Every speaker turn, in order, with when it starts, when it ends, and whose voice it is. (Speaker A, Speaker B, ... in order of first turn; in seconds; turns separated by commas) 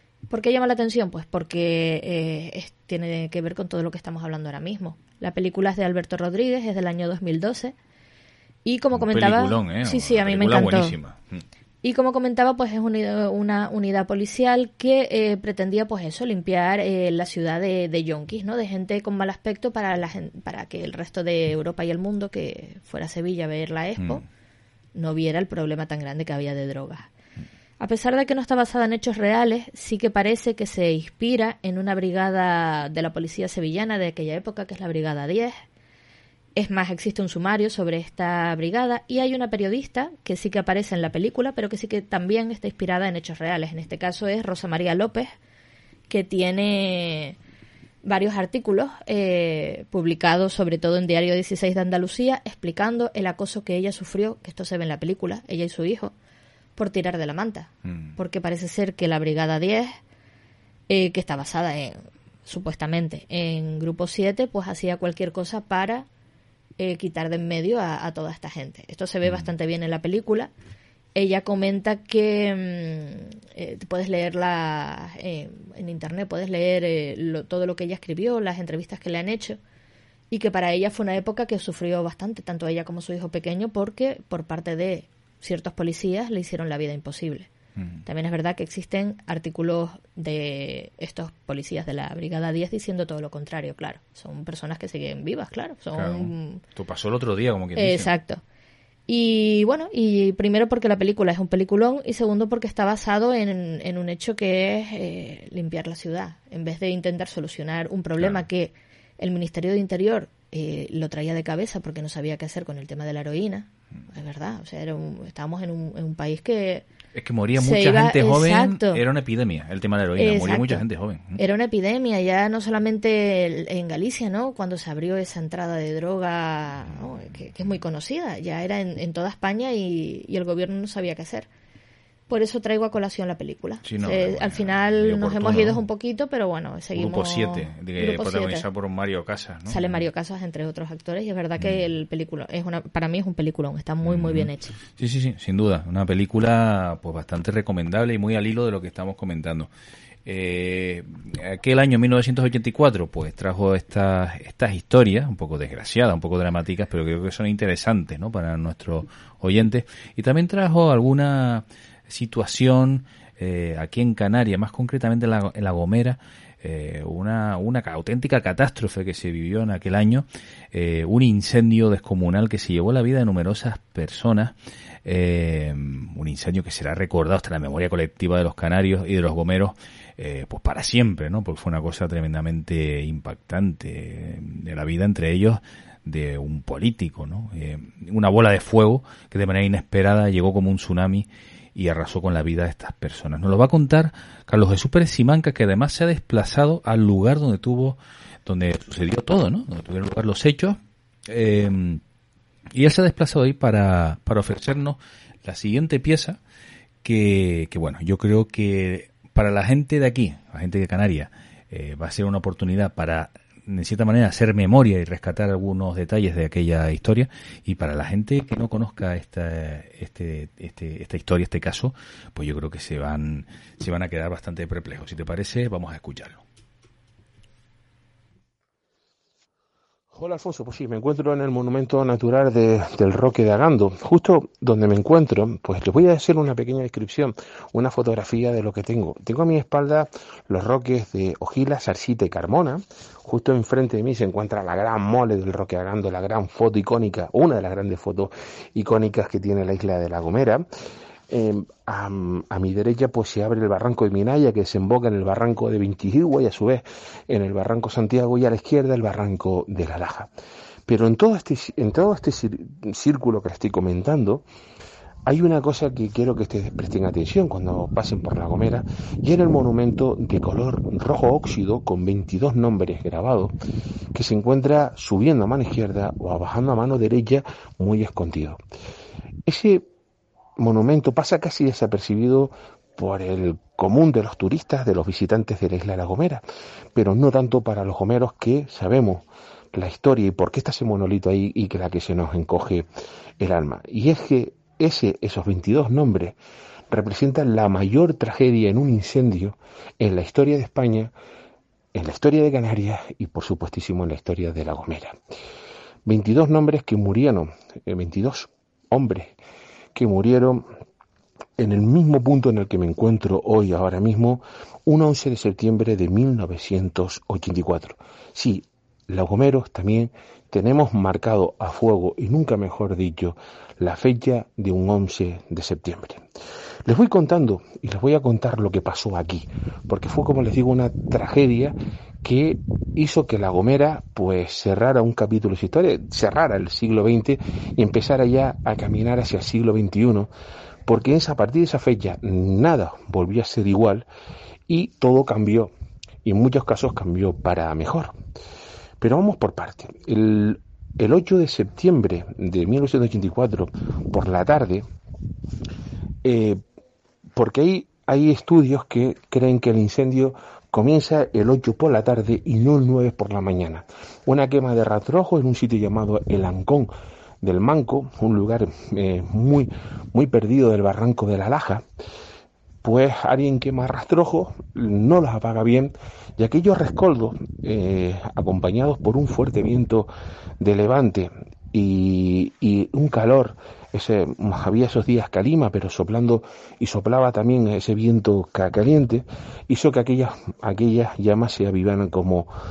Speaker A: 0.3-7.7, Speaker A: 8.6-10.9, Speaker B: 8.9-11.4, Speaker A: 11.8-24.2, Speaker B: 24.0-24.2, Speaker A: 24.9-27.1, Speaker A: 27.8-35.6, Speaker A: 36.5-45.3, Speaker A: 46.1-47.4, Speaker A: 48.0-56.1, Speaker A: 56.8-60.0, Speaker B: 57.8-58.1, Speaker A: 60.9-66.1, Speaker A: 66.8-70.5, Speaker B: 69.2-69.5, Speaker A: 71.2-79.6, Speaker A: 80.3-87.5, Speaker B: 87.8-88.0, Speaker A: 88.0-96.6, Speaker B: 95.9-98.1, Speaker A: 97.8-98.4, Speaker A: 99.1-116.9, Speaker B: 117.1-121.4, Speaker A: 117.6-119.0, Speaker A: 120.2-120.8, Speaker A: 121.4-131.5, Speaker A: 132.3-138.7, Speaker B: 133.8-135.8, Speaker B: 136.9-140.0, Speaker A: 139.7-144.8, Speaker B: 141.6-141.9, Speaker B: 144.0-149.7, Speaker B: 150.2-202.0, Speaker B: 202.7-206.4, Speaker B: 207.0-226.4, Speaker C: 230.1-250.7, Speaker C: 251.3-260.3, Speaker C: 260.9-264.4, Speaker C: 265.2-273.5, Speaker C: 274.1-278.6, Speaker C: 279.4-279.9, Speaker C: 280.6-286.4, Speaker C: 286.9-292.9, Speaker C: 293.4-296.4, Speaker C: 296.9-301.1, Speaker C: 301.9-305.2, Speaker C: 306.1-309.3, Speaker C: 309.9-310.7, Speaker C: 311.6-326.2, Speaker C: 326.9-340.3, Speaker C: 340.9-344.1, Speaker C: 344.7-345.7, Speaker C: 346.2-348.1, Speaker C: 349.0-354.9, Speaker C: 356.2-356.6, Speaker C: 357.3-371.8, Speaker C: 372.8-392.5